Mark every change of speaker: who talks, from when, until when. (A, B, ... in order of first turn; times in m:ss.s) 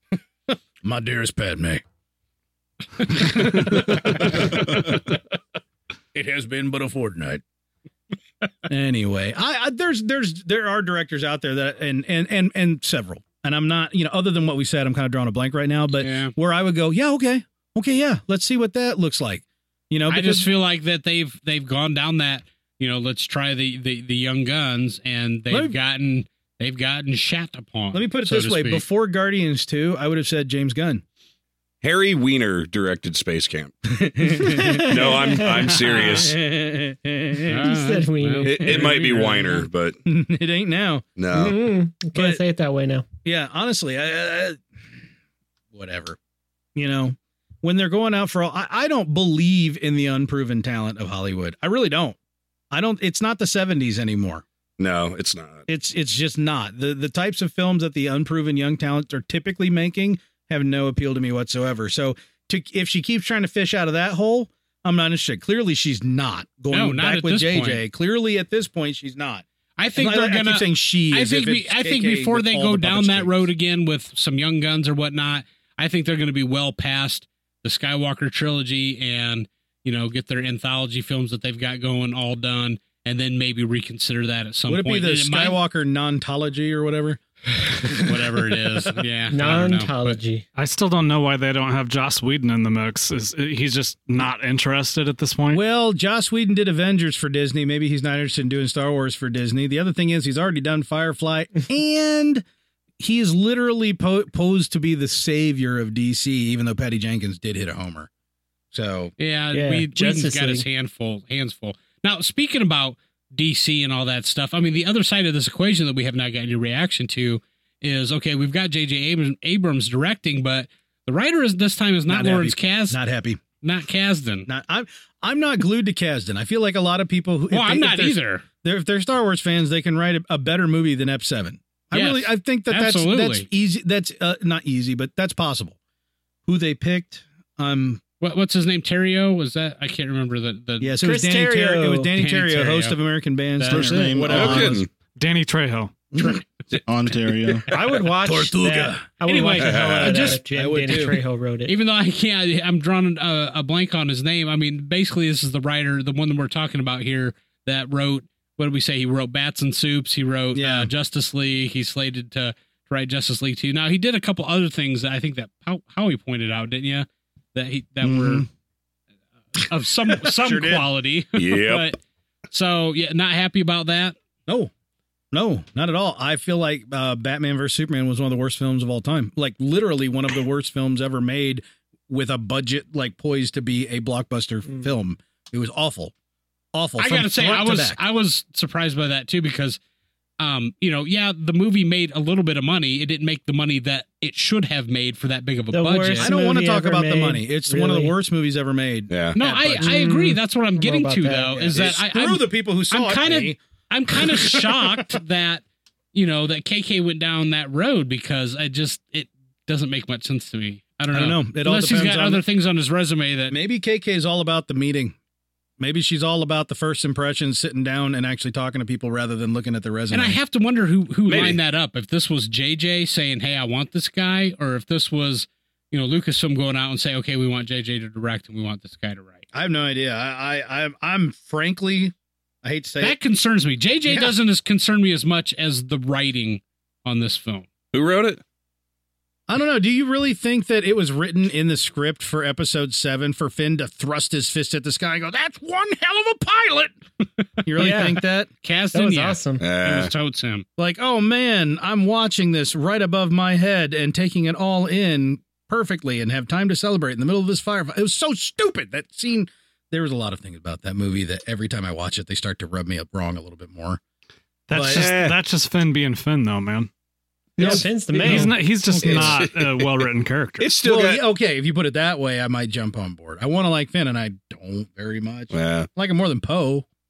0:00.5-0:01.8 A
0:03.0-0:05.2 A
0:06.1-0:07.4 A
0:08.7-0:20.5 A
0:16.0-0:16.3 B
0:20.1-0:28.8 B
0:25.5-0:25.8 A
0:27.9-0:31.0 A
0:31.8-0:33.8 C
0:33.9-0:37.6 A
0:34.4-0:35.5 D
0:34.8-0:36.4 C
0:37.5-0:39.6 B
0:37.6-0:39.3 D
0:38.5-0:40.0 C
0:38.6-0:39.2 A
0:40.0-0:41.1 A
0:41.2-0:41.6 C
0:41.3-0:43.0 D
0:42.2-0:42.4 A
0:43.2-0:44.6 A
0:45.7-0:46.2 A
0:46.8-0:52.2 A
0:52.7-0:54.4 A
0:54.8-0:55.7 C
0:55.7-1:09.4 A
1:06.7-1:07.8 B
1:09.8-1:25.6 B
1:10.0-1:13.5 A
1:24.7-1:27.2 A
1:27.6-1:30.2 B
1:27.8-1:28.2 A
1:29.3-1:30.5 D
1:30.6-1:35.6 E
1:35.5-1:42.4 A
1:43.0-1:48.1 A
1:48.7-1:49.1 A
1:49.2-2:03.0 B
1:49.5-1:50.6 D
2:02.1-2:03.4 A
2:03.6-2:04.5 B
2:04.5-2:15.8 A
2:07.5-2:08.4 B
2:11.9-2:13.5 B
2:16.5-2:18.0 A
2:18.2-2:21.0 B
2:20.8-2:24.8 A
2:21.0-2:22.1 D
2:22.2-2:23.0 B
2:23.6-2:24.2 B
2:23.7-2:24.8 F
2:24.3-2:24.9 C
2:25.2-2:26.0 E
2:26.1-2:26.4 A
2:26.8-2:27.7 F
2:27.7-2:31.8 D
2:28.2-2:31.2 A
2:29.2-2:30.2 B
2:29.6-2:30.4 C
2:31.7-2:48.5 B
2:40.6-2:40.9 A
2:48.0-2:48.4 F
2:49.6-2:52.0 B
2:50.2-2:50.9 A
2:51.4-2:51.9 C
2:52.5-2:54.2 B
2:55.3-3:06.1 A
3:06.7-3:08.0 A
3:07.0-3:09.8 B
3:10.4-3:16.3 B
3:15.7-3:18.2 D
3:16.2-3:20.0 A
3:19.1-3:19.4 C
3:19.4-3:25.6 B
3:19.8-3:21.8 D
3:21.7-3:23.6 A
3:24.1-3:25.2 A
3:26.1-3:33.6 B
3:31.1-3:32.4 A
3:33.5-3:35.2 A
3:35.8-3:40.4 A
3:40.1-3:49.5 B
3:41.3-3:41.6 C
3:49.5-3:53.2 A
3:53.0-3:57.7 B
3:54.1-3:54.3 A
3:57.9-3:58.4 C
3:59.5-4:07.0 A
4:07.6-4:08.5 A
4:07.8-4:08.2 D
4:07.8-4:08.1 B
4:08.6-4:10.6 B
4:08.9-4:09.6 D
4:09.6-4:10.1 C
4:10.8-4:24.0 A
4:24.7-4:26.9 E
4:24.7-4:25.2 A
4:24.8-4:25.4 C
4:27.6-4:29.4 D
4:27.6-4:30.7 E
4:27.6-4:29.4 A
4:29.0-4:30.0 C
4:30.6-4:31.2 C
4:30.8-4:36.9 A
4:35.5-4:35.9 C